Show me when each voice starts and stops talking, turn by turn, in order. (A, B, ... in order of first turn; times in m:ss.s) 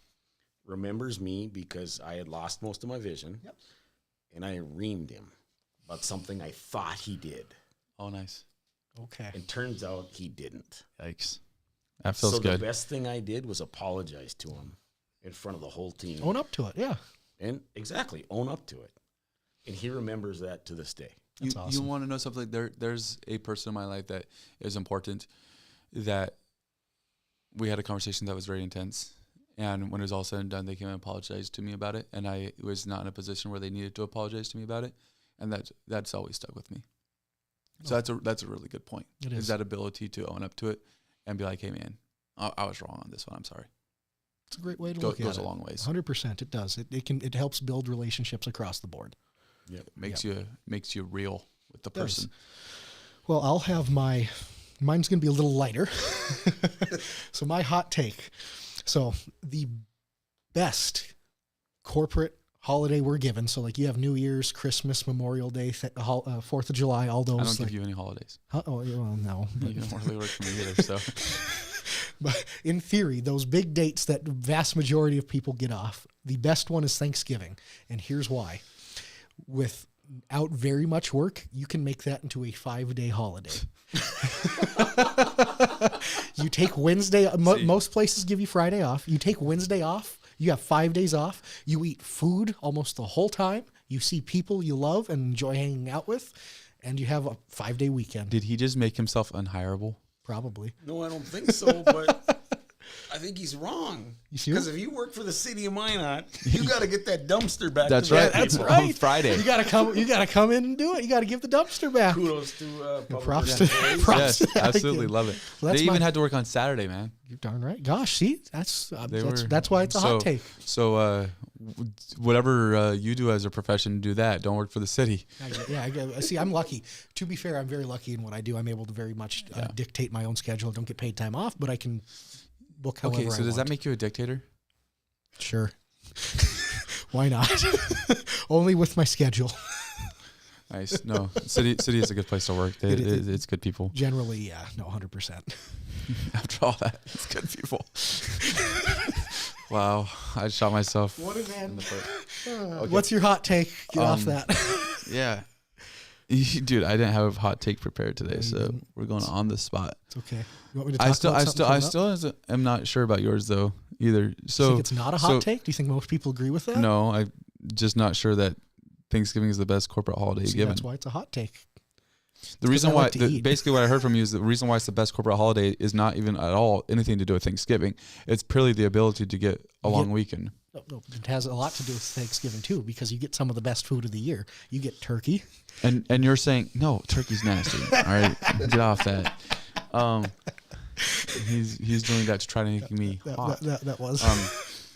0:00.6-0:03.4 A
0:04.3-0:05.3 A
0:05.9-0:07.6 A
0:08.0-0:08.4 B
0:09.0-0:09.4 C
0:09.3-0:10.9 A
0:11.0-0:11.4 B
0:12.0-0:12.6 B
0:12.2-0:16.3 A
0:16.2-0:17.0 C
0:17.4-0:19.0 A
0:19.6-0:21.2 A
0:21.4-0:21.9 C
0:21.4-0:25.3 B
0:25.9-0:26.4 B
0:27.5-0:36.8 B
0:37.8-0:43.7 B
0:39.2-0:39.5 C
0:44.5-0:49.2 C
0:45.0-0:45.9 B
0:50.0-0:52.3 B
0:52.0-0:52.3 C
0:53.2-0:59.8 C
1:00.5-1:01.1 C
1:01.8-1:07.8 C
1:07.4-1:08.4 B
1:08.5-1:18.7 C
1:09.6-1:11.3 B
1:19.4-1:38.4 C
1:38.3-1:40.0 B
1:40.2-1:40.8 C
1:40.8-1:42.2 A
1:41.5-1:42.3 C
1:43.1-1:48.8 A
1:44.3-1:44.7 C
1:46.4-1:46.7 B
1:47.8-1:49.5 B
1:48.0-1:52.3 C
1:52.1-1:54.4 A
1:53.1-1:56.1 C
1:53.4-1:57.1 B
1:57.3-2:00.5 C
1:59.1-2:05.3 B
2:05.4-2:12.1 C
2:09.5-2:09.8 B
2:12.7-2:13.7 C
2:13.0-2:14.4 B
2:15.4-2:20.2 C
2:20.7-2:23.9 B
2:22.9-2:25.8 C
2:26.1-2:33.1 B
2:31.2-2:35.1 C
2:33.9-2:34.5 B
2:35.0-2:35.5 B
2:36.3-2:40.1 B
2:38.3-2:39.3 C
2:40.1-2:42.0 C
2:41.0-2:45.5 B
2:44.6-2:46.9 C
2:46.7-2:50.8 B
2:50.4-2:51.7 C
2:52.6-3:00.5 B
2:52.7-2:53.6 C
2:59.8-3:00.1 C
3:00.7-3:05.4 C
3:05.8-3:10.5 B
3:11.2-3:14.6 B
3:13.1-3:14.6 C